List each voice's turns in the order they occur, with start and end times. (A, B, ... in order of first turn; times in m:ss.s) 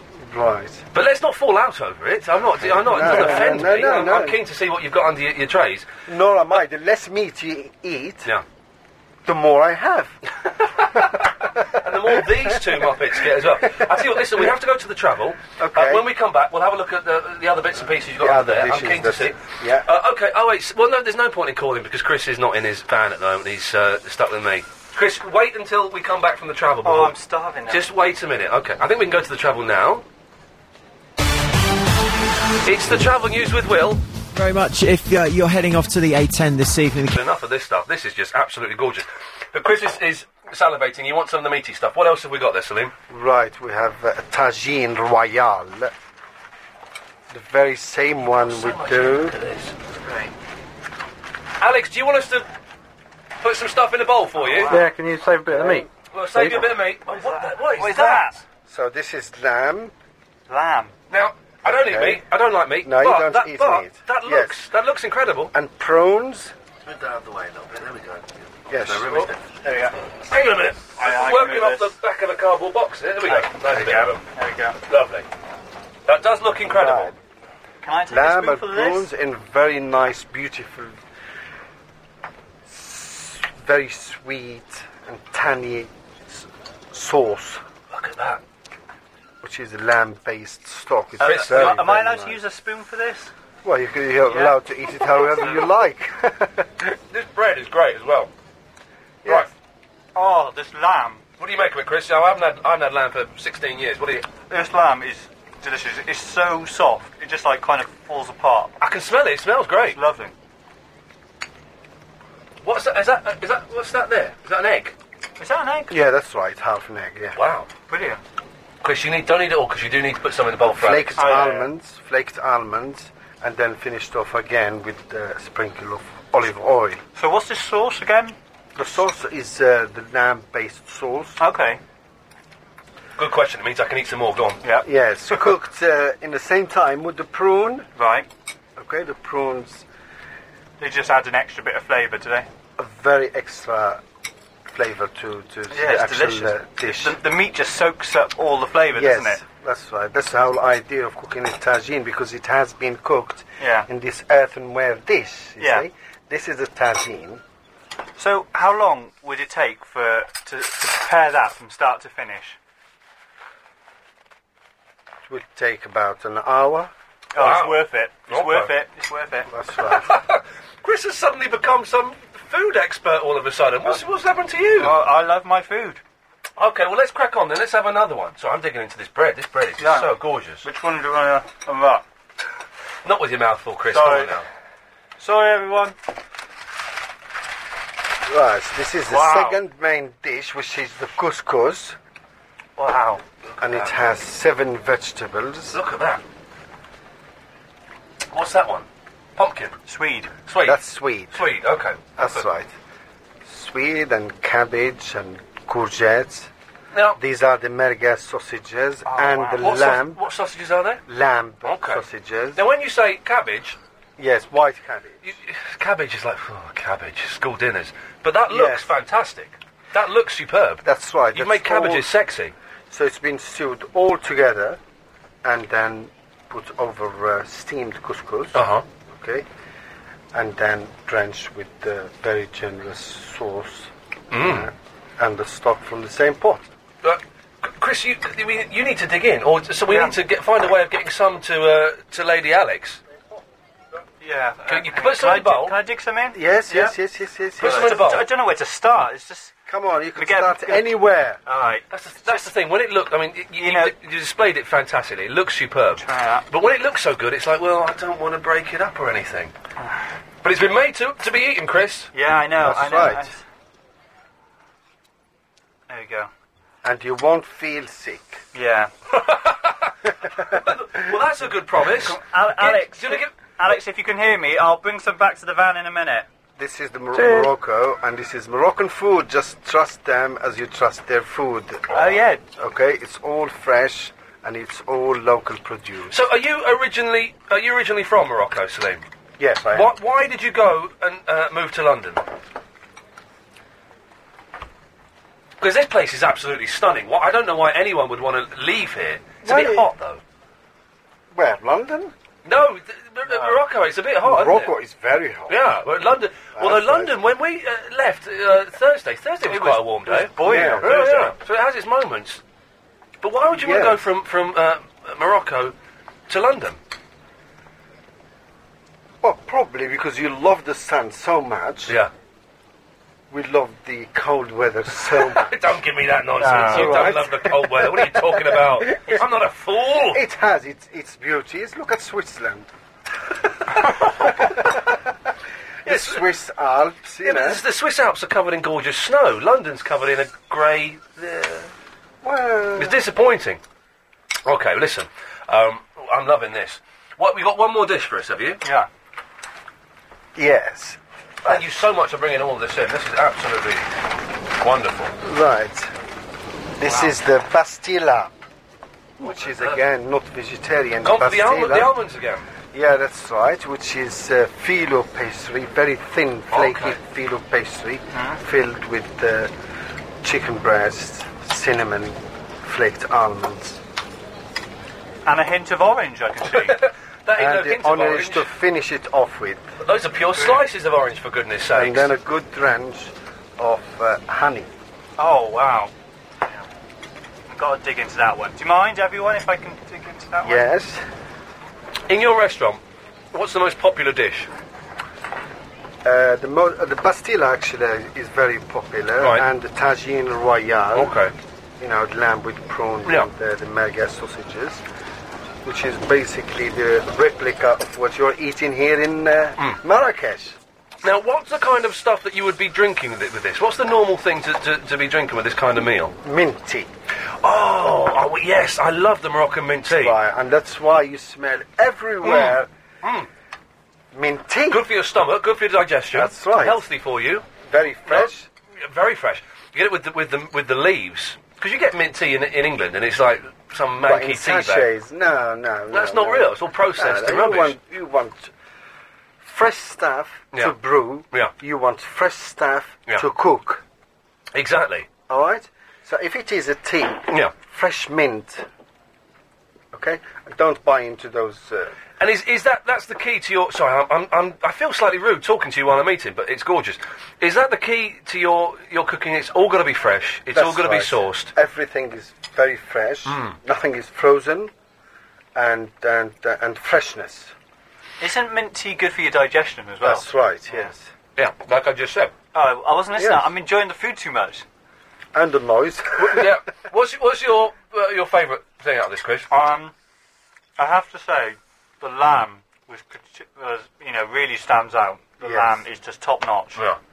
0:00.3-0:00.8 A
0:00.9-0:05.9 B
0:02.6-0:04.4 A
0:06.1-0:08.3 A
0:09.3-0:10.2 A
0:10.8-0:11.3 B
0:11.8-0:30.0 B
0:15.6-0:16.1 A
0:18.2-0:19.9 A
0:26.8-0:27.9 C
0:32.6-0:34.0 B
0:34.3-0:37.2 D
0:37.1-0:42.9 B
0:43.1-0:45.9 A
0:47.3-0:49.4 A
0:48.3-0:49.8 B
0:50.0-0:50.3 C
0:51.6-0:52.5 B
0:53.4-0:54.8 B
0:54.4-0:55.8 C
0:55.5-0:56.7 A
0:56.1-0:58.3 B
0:57.1-0:58.4 C
0:58.6-0:59.9 A
1:00.5-1:00.9 C
1:01.1-1:05.5 B
1:01.6-1:02.2 A
1:02.8-1:04.6 A
1:05.5-1:06.5 A
1:06.8-1:09.4 B
1:08.7-1:09.3 A
1:09.6-1:09.9 C
1:10.3-1:14.2 B
1:11.0-1:11.9 C
1:13.2-1:14.8 C
1:14.9-1:15.3 B
1:16.1-1:17.1 B
1:16.7-1:17.2 A
1:17.8-1:19.1 C
1:18.1-1:21.0 A
1:22.7-1:27.6 A
1:27.9-1:28.4 B
1:29.4-1:32.4 A
1:31.2-1:33.3 C
1:31.2-1:31.8 B
1:33.6-1:36.7 A
1:34.3-1:34.6 C
1:35.4-1:35.7 C
1:37.1-1:38.3 B
1:39.2-1:39.5 A
1:40.2-1:41.2 C
1:41.4-1:44.3 B
1:44.5-1:48.7 C
1:48.8-1:50.0 B
1:49.9-1:50.3 C
1:52.6-1:54.9 B
1:55.4-1:55.9 C
1:55.9-1:57.4 A
1:57.4-1:57.7 B
1:57.9-1:58.2 C
1:58.8-2:01.3 B
2:00.8-2:07.0 A
2:01.2-2:01.7 C
2:07.2-2:08.4 C
2:08.8-2:11.4 A
2:11.4-2:11.8 C
2:13.2-2:14.6 B
2:14.6-2:14.9 C
2:14.8-2:17.9 A
2:18.0-2:18.3 C
2:18.8-2:19.8 A
2:20.8-2:22.5 C
2:22.8-2:24.0 A
2:24.7-2:27.2 A
2:25.7-2:29.4 C
2:28.9-2:37.4 A
2:33.6-2:33.9 C
2:35.6-2:35.9 C
2:38.2-2:42.6 C
2:45.3-2:46.9 A
2:47.4-2:49.5 C
2:47.4-2:48.8 B
2:49.5-2:50.1 A
2:49.8-2:55.0 B
2:54.8-2:56.0 C
2:56.6-3:00.7 B
2:59.8-3:00.1 C
3:00.6-3:02.0 C
3:03.0-3:04.5 B
3:03.9-3:04.4 C
3:05.2-3:06.0 C
3:08.3-3:12.0 A
3:09.1-3:09.6 C
3:12.8-3:13.2 C
3:13.6-3:13.9 B
3:13.6-3:15.8 A
3:15.7-3:16.2 B
3:18.3-3:18.9 B
3:19.4-3:19.8 B
3:19.9-3:20.3 C
3:20.5-3:22.4 B
3:20.6-3:21.4 A
3:22.2-3:22.7 A
3:23.4-3:26.5 A
3:26.9-3:27.2 B
3:27.2-3:30.2 A
3:29.1-3:29.6 C
3:29.6-3:31.0 B
3:31.1-3:32.6 A
3:31.6-3:33.8 B
3:34.2-3:35.2 A
3:35.2-3:42.5 B
3:38.5-3:38.9 A
3:40.8-3:42.1 A
3:42.9-3:44.8 A
3:45.4-3:49.4 A
3:48.5-3:48.8 B
3:50.3-3:56.7 A
3:54.3-3:54.7 B
3:57.0-4:03.0 B
3:59.9-4:00.2 C
4:04.2-4:07.0 C
4:04.7-4:05.8 B
4:06.3-4:08.0 A
4:07.6-4:08.3 B
4:07.6-4:09.6 C
4:09.7-4:11.4 A
4:10.2-4:12.4 C
4:11.9-4:19.5 B
4:13.6-4:14.0 C
4:16.0-4:16.4 C
4:20.4-4:22.1 B
4:22.1-4:23.4 C
4:22.6-4:23.3 A
4:25.9-4:26.3 C
4:26.8-4:28.4 A
4:28.5-4:28.9 C
4:29.1-4:33.3 B
4:31.9-4:36.3 C
4:36.6-4:46.2 A
4:37.2-4:37.5 C
4:41.9-4:42.4 C
4:46.1-4:49.0 B
4:49.4-4:49.9 A
4:49.7-4:52.2 B
4:55.6-5:00.2 B
4:59.4-4:59.9 A
5:01.3-5:02.1 A
5:02.4-5:04.7 B
5:03.3-5:03.6 C
5:04.2-5:05.6 A
5:05.5-5:12.4 B
5:06.6-5:07.2 A
5:09.5-5:11.3 C
5:10.4-5:11.3 A
5:13.2-5:15.7 B
5:13.5-5:14.0 A
5:16.3-5:16.8 B
5:19.2-5:22.0 A
5:23.3-5:25.6 A
5:25.0-5:30.2 B
5:26.4-5:27.1 C
5:26.4-5:29.2 A
5:30.1-5:32.7 A
5:35.8-5:37.6 A
5:35.9-5:36.2 B
5:37.2-5:41.7 B
5:42.2-5:43.0 A
5:42.8-5:43.6 B
5:44.4-5:48.6 B
5:50.4-5:51.7 A
5:51.4-5:53.9 B
5:54.6-5:55.1 B
5:55.2-5:55.9 A
5:56.8-5:58.4 A
5:56.8-5:57.1 C
5:59.2-6:01.9 A
5:59.2-5:59.8 B
6:01.0-6:02.4 B
6:02.7-6:09.5 A
6:06.5-6:07.0 B
6:08.1-6:08.4 C
6:10.2-6:13.8 A
6:15.3-6:16.8 C
6:16.5-6:18.5 B
6:17.4-6:19.6 A
6:19.8-6:22.1 B
6:20.4-6:20.6 C
6:21.7-6:24.7 A
6:25.2-6:25.9 C
6:27.5-6:30.7 C
6:30.4-6:31.0 A
6:32.1-6:32.8 B
6:33.3-6:34.5 B
6:36.0-6:41.1 A
6:39.2-6:39.5 B
6:40.9-6:41.3 B
6:41.8-6:44.8 A
6:43.0-6:43.3 B
6:45.6-6:50.6 A
6:51.0-6:56.1 B
6:56.2-6:56.9 A
6:57.4-7:00.2 B
6:59.9-7:02.7 A
7:02.2-7:03.3 B
7:04.1-7:04.8 A
7:04.7-7:07.5 B
7:06.1-7:06.8 A
7:07.6-7:08.5 A
7:08.1-7:14.9 B
7:14.0-7:18.5 A
7:15.9-7:17.8 B
7:19.4-7:23.8 A
7:24.5-7:25.1 B
7:25.3-7:28.7 A
7:27.3-7:27.5 B
7:29.9-7:31.9 A
7:32.2-7:41.5 B
7:40.5-7:44.7 A
7:43.3-7:43.6 B
7:45.6-7:47.5 A
7:48.2-7:50.9 C
7:50.0-7:51.1 A
7:51.4-7:52.3 B
7:52.5-7:54.6 C
7:53.2-7:53.5 A
7:55.3-7:56.5 A
7:56.2-7:59.5 B
7:59.5-7:59.9 C
8:00.8-8:06.8 C
8:05.4-8:05.8 A